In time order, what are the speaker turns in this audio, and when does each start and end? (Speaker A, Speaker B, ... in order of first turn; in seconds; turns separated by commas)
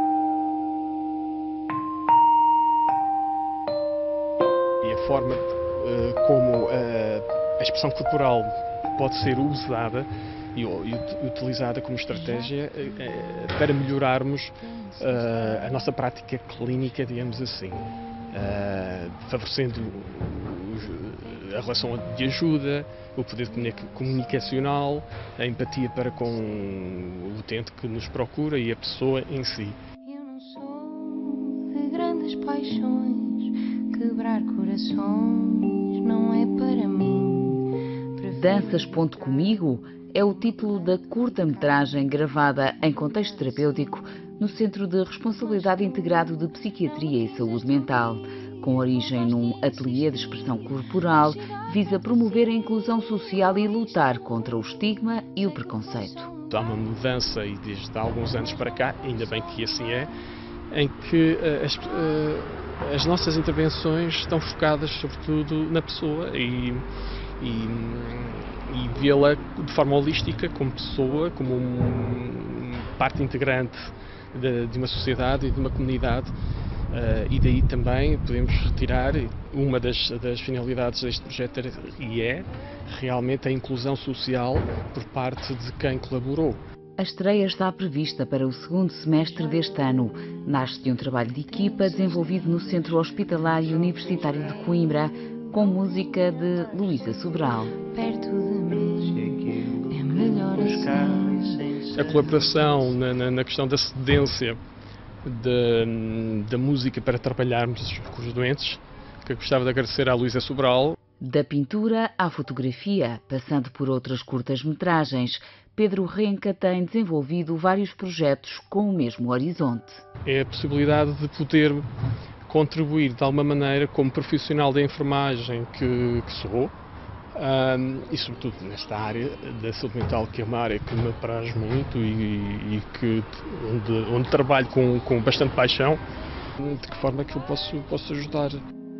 Speaker A: 4.8-29.8, Speaker B: 30.1-38.8, Speaker C: 38.3-56.3, Speaker A: 56.5-60.1, Speaker A: 60.7-66.8, Speaker A: 67.4-76.3, Speaker A: 76.9-86.6, Speaker C: 87.0-97.8, Speaker B: 97.7-102.0, Speaker A: 101.8-104.6, Speaker A: 105.2-111.0, Speaker C: 111.2-120.0, Speaker A: 120.2-121.8, Speaker A: 122.5-126.7, Speaker A: 127.3-136.0, Speaker A: 136.6-138.6